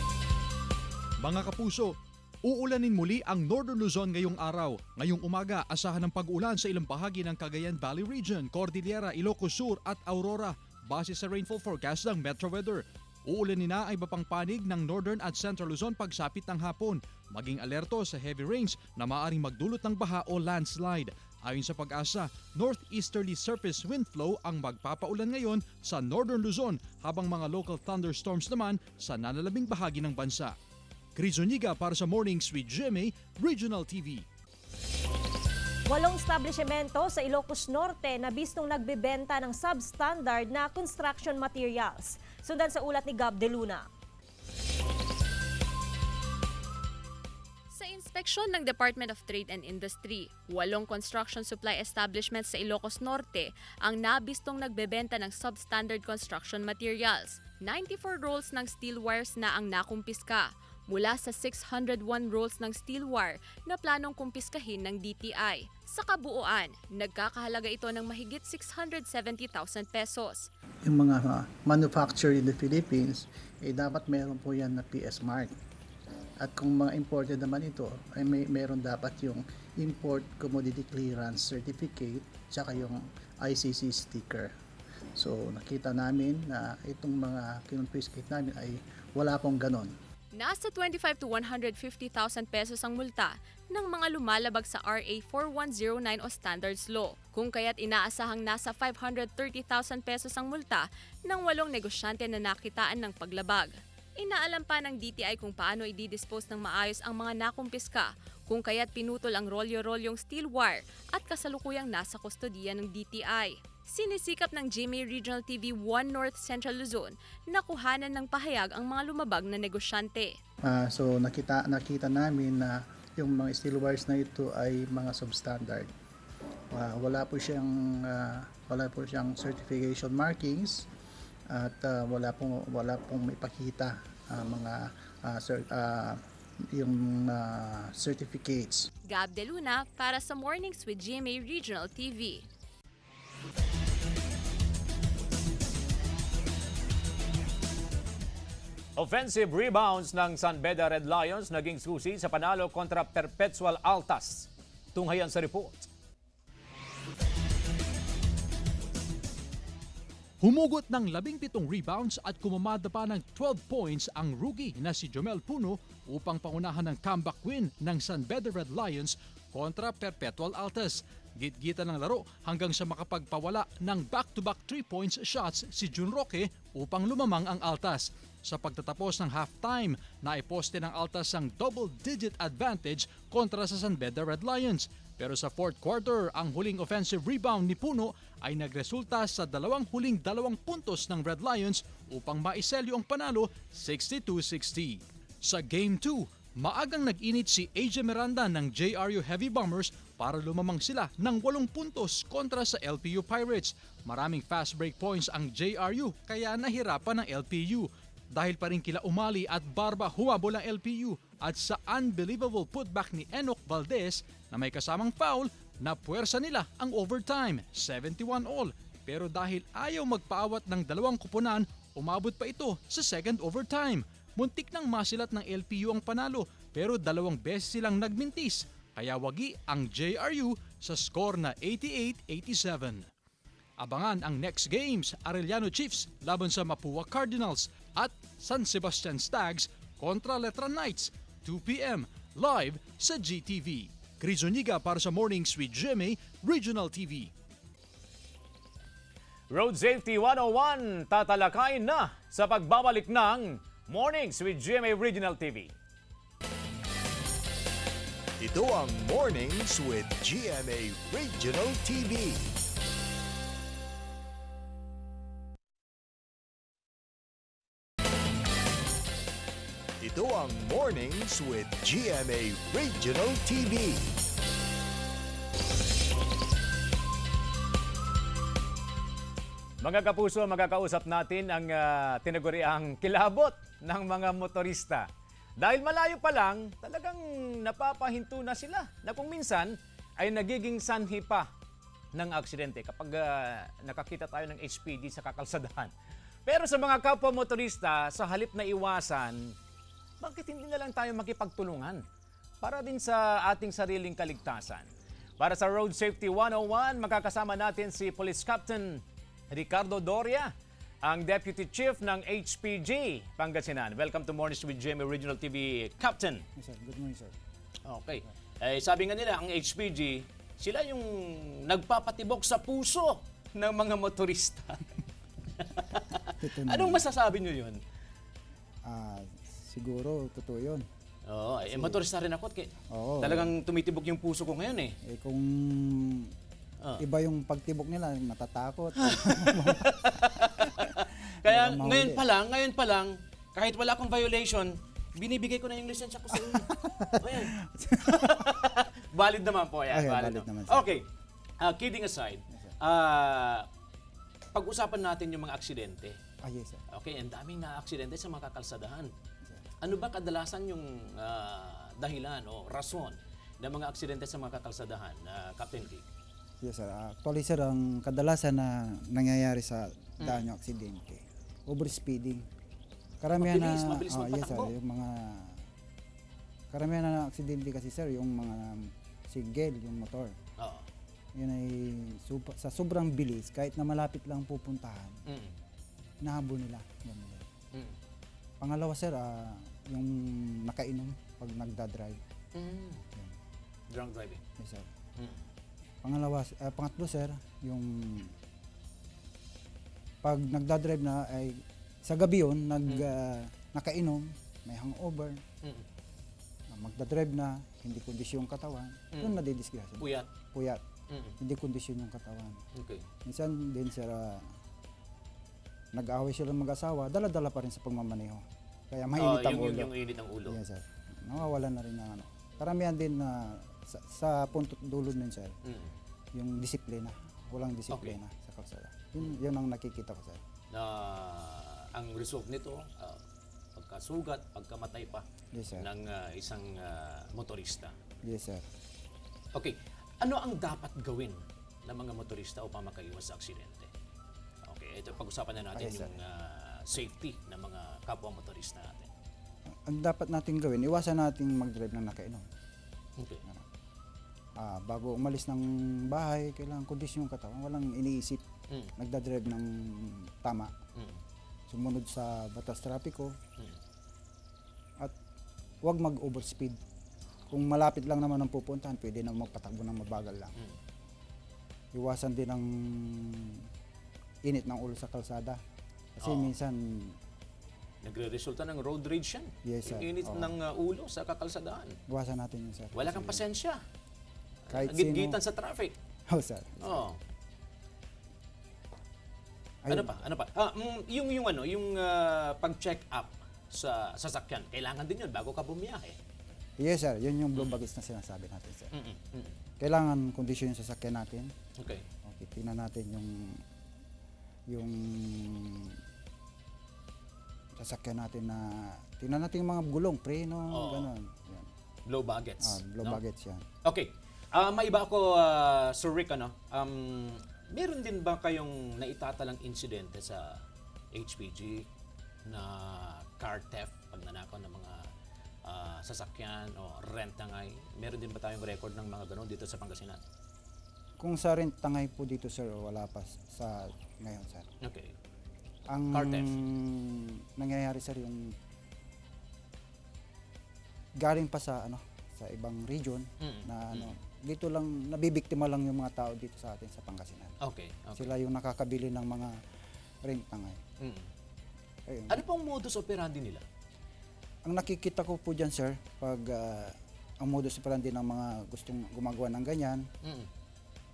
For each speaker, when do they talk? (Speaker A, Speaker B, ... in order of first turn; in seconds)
Speaker A: 1.2-30.5, 31.1-34.2, 160.4-233.1, 233.8-247.3
Speaker B: 35.9-43.9
Speaker C: 47.7-70.5, 90.3-120.3, 139.1-142.5
Speaker D: 70.8-75.5, 76.4-84.5, 85.2-89.9, 120.6-125.9, 126.7-130.9, 131.5-138.9
Speaker E: 148.9-155.9, 249.5-255.7, 279.8-285.1, 285.6-291.5, 292.1-295.9, 296.5-299.5, 300.2-302.0, 302.6-304.9, 305.4-310.5, 311.0-316.4, 317.9-324.9, 325.6-327.8, 331.3-334.9, 339.0-347.5, 348.1-351.0, 351.6-353.7, 354.5-356.2, 356.9-359.1, 359.8-366.0, 370.2-370.4, 373.4-374.7, 380.6-380.9, 385.3-385.5, 392.5-393.0, 393.9-394.4, 409.1-409.4, 410.0-410.3, 411.1-411.3, 412.7-413.0, 419.2-420.6, 425.6-425.9, 427.9-428.2, 430.7-433.2, 433.8-435.2, 435.8-437.9, 439.5-443.9, 444.6-449.1, 453.2-453.4, 476.2-476.5, 478.0-481.9, 482.9-483.8, 484.7-485.9, 486.8-487.2, 489.9-496.2, 498.9-499.5, 501.8-502.0, 510.7-511.1, 512.1-513.2, 513.8-520.6, 521.1-521.9, 522.4-525.1, 525.6-530.2, 534.8-535.1, 536.1-536.5, 543.4-544.1, 547.6-548.3, 551.0-551.2, 552.3-553.6, 560.2-560.5
Speaker F: 258.4-262.5, 270.0-274.1
Speaker G: 316.6-317.3, 326.4-327.0, 328.8-330.9, 331.7-332.0, 332.9-333.5, 335.0-336.3, 337.0-339.9, 341.4-342.2, 346.3-348.5, 349.9-350.9, 356.4-356.8, 366.6-372.5, 373.2-375.6, 376.7-380.3, 381.4-385.2, 386.2-387.4, 388.6-392.2, 394.6-394.9, 396.0-398.3, 400.2-405.4, 406.7-410.8, 411.4-412.6, 413.2-414.4, 415.9-419.9, 420.5-425.5, 426.3-430.4, 435.5-435.9, 438.2-438.6, 445.7-446.1, 449.9-452.4, 454.6-458.4, 459.0-460.7, 461.7-463.3, 465.8-466.8, 467.5-470.5, 471.9-473.6, 474.4-475.6, 476.2-477.1, 479.6-480.5, 482.1-483.4, 484.7-485.4, 486.3-487.0, 489.8-490.2, 496.8-498.9, 499.8-501.5, 502.2-503.6, 504.7-506.0, 507.8-511.7, 512.6-513.6, 531.2-534.7, 535.9-538.5, 541.2-547.5, 548.1-549.6, 550.2-550.8, 552.1-552.4, 554.6-560.1